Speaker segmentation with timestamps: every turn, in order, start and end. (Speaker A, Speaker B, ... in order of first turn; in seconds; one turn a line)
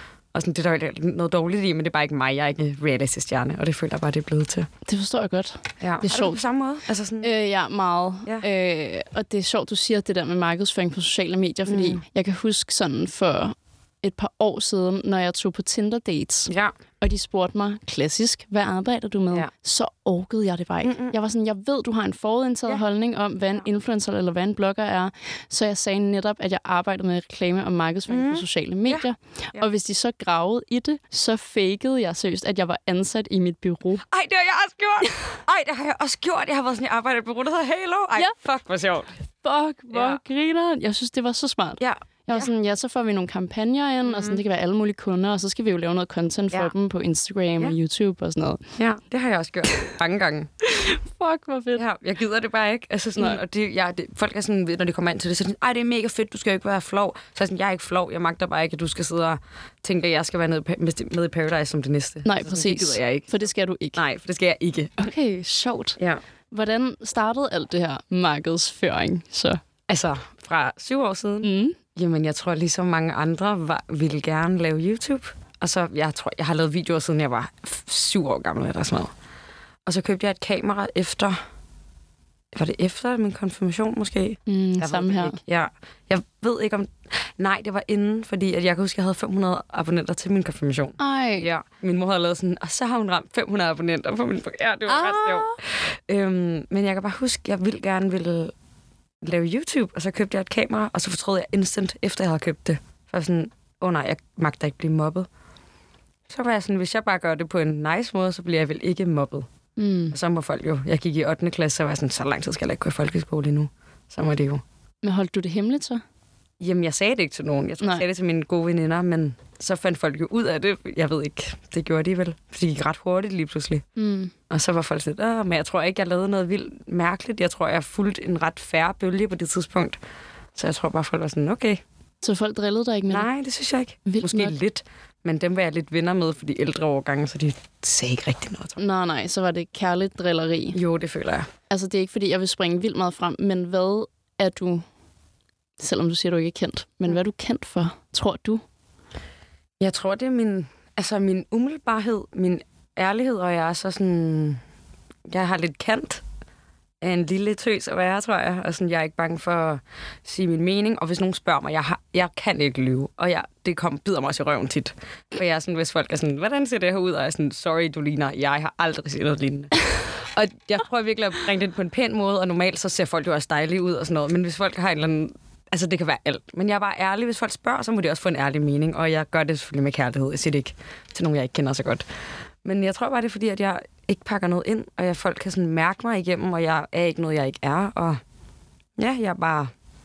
Speaker A: 0.3-4.7
Speaker B: 4.8-6.4
Speaker A: 5.8-7.3
Speaker B: 7.2-34.0
Speaker A: 11.7-12.0
Speaker A: 16.5-16.7
Speaker A: 20.8-21.1
Speaker A: 28.1-29.7
Speaker A: 34.1-39.1
Speaker B: 39.4-48.6
Speaker A: 39.9-40.2
Speaker A: 41.8-42.5
Speaker A: 44.0-44.4
Speaker A: 48.8-50.5
Speaker B: 50.7-51.8
Speaker A: 51.7-65.1
Speaker B: 62.2-64.0
Speaker B: 65.0-66.0
Speaker B: 66.5-69.6
Speaker A: 69.9-79.1
Speaker B: 71.4-71.8
Speaker A: 79.8-81.4
Speaker A: 82.5-98.5
Speaker B: 84.5-85.4
Speaker B: 91.0-91.5
Speaker B: 94.9-95.6
Speaker A: 99.2-105.3
Speaker A: 106.3-109.5
Speaker B: 109.8-110.1
Speaker A: 110.1-114.6
Speaker B: 115.0-116.0
Speaker A: 116.6-123.8
Speaker B: 124.0-124.3
Speaker A: 124.5-130.0
Speaker A: 130.6-131.8
Speaker B: 132.2-133.3
Speaker A: 133.1-138.8
Speaker B: 134.1-134.6
Speaker B: 138.8-140.8
Speaker A: 140.7-141.5
Speaker B: 141.7-144.8
Speaker B: 145.8-148.6
Speaker A: 149.8-154.6
Speaker A: 155.3-156.2
Speaker A: 157.0-182.0
Speaker A: 182.6-188.2
Speaker A: 189.0-189.7